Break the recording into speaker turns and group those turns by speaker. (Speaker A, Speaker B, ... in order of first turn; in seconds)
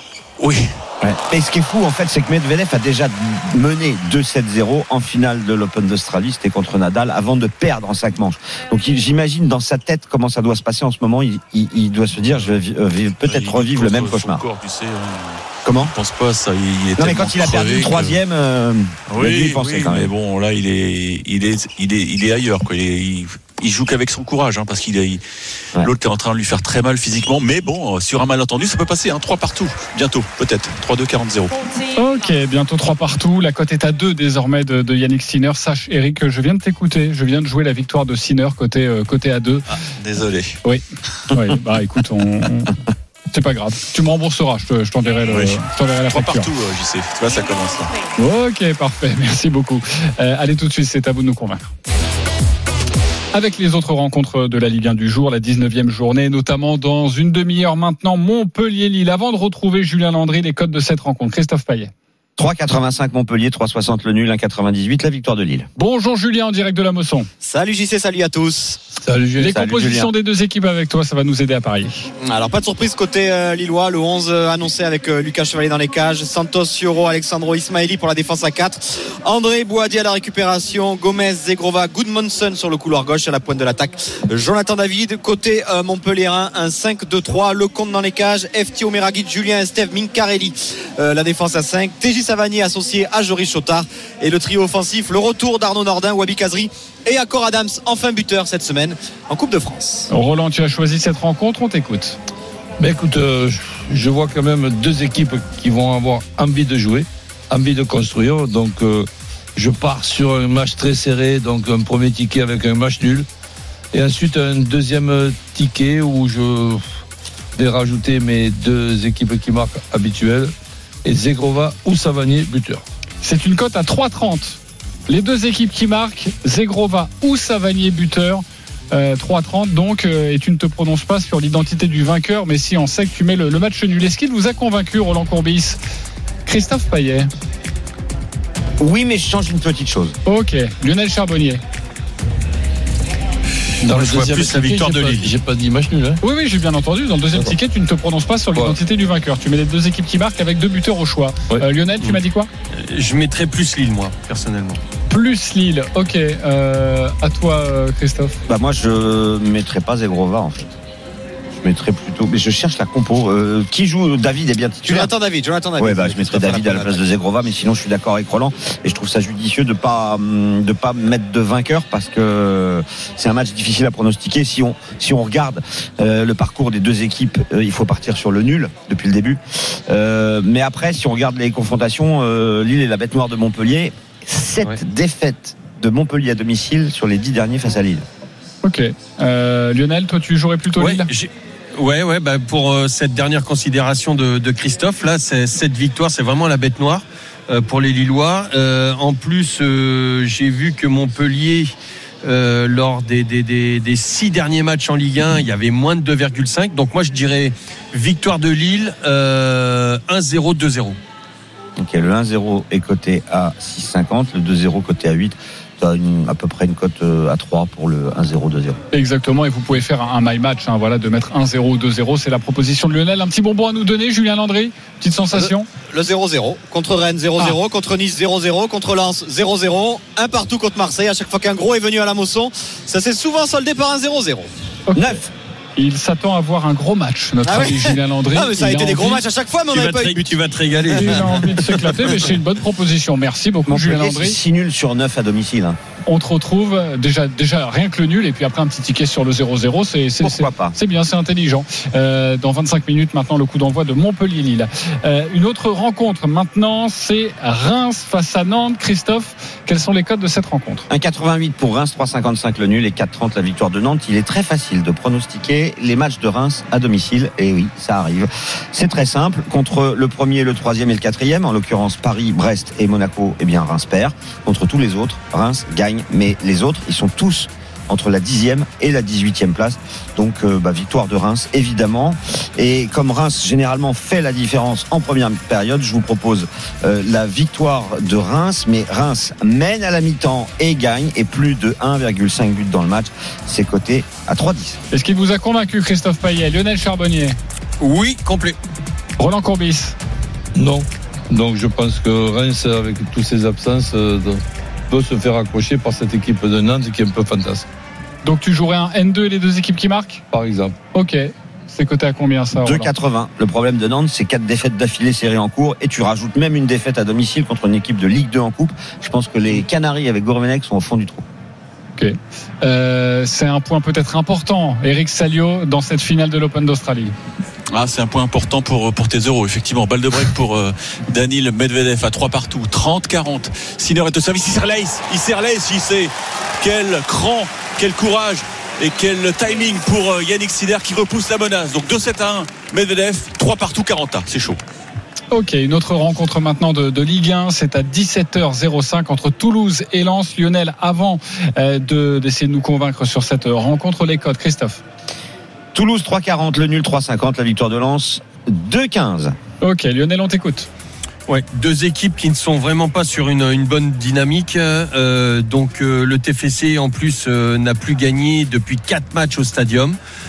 Speaker A: 0.4-0.7, 13.2-18.1, 19.1-25.2, 25.8-31.6, 39.8-40.6, 45.2-47.9, 143.9-145.3, 327.7-344.6
Speaker B: 1.0-14.4, 15.6-15.9, 17.0-20.1, 62.4-65.7, 69.5-70.1, 138.8-140.1, 158.5-160.7, 161.6-165.1, 165.8-188.0, 211.8-218.8, 234.9-235.3, 243.7-245.8, 250.2-250.7, 260.9-294.8, 312.5-321.2, 355.7-359.3
Speaker C: 31.9-39.7, 40.6-42.8, 43.3-46.5, 48.2-51.7, 53.3-61.9, 65.8-67.3, 69.4-72.1, 100.1-102.2, 123.2-135.8, 136.4-137.3, 140.2-141.6, 146.2-152.5, 155.1-158.4, 188.6-191.1, 218.9-225.7, 234.9-235.2, 235.8-239.2, 240.9-244.4, 246.1-260.9, 294.9-297.4, 299.2-299.9, 308.2-310.2, 310.9-312.9, 322.0-327.1, 345.3-354.8, 359.6-360.7
Speaker D: 67.4-68.8, 72.2-100.1, 164.8-167.0, 225.9-234.5, 237.4-240.4
Speaker E: 69.0-69.5, 102.8-113.2, 113.9-116.9, 117.5-120.5, 121.0-122.8, 143.8-146.2, 300.6-307.7, 310.3-310.8
Speaker F: 152.8-154.8, 190.8-201.7, 202.2-211.0, 239.7-242.0, 297.8-298.6, 361.3-370.0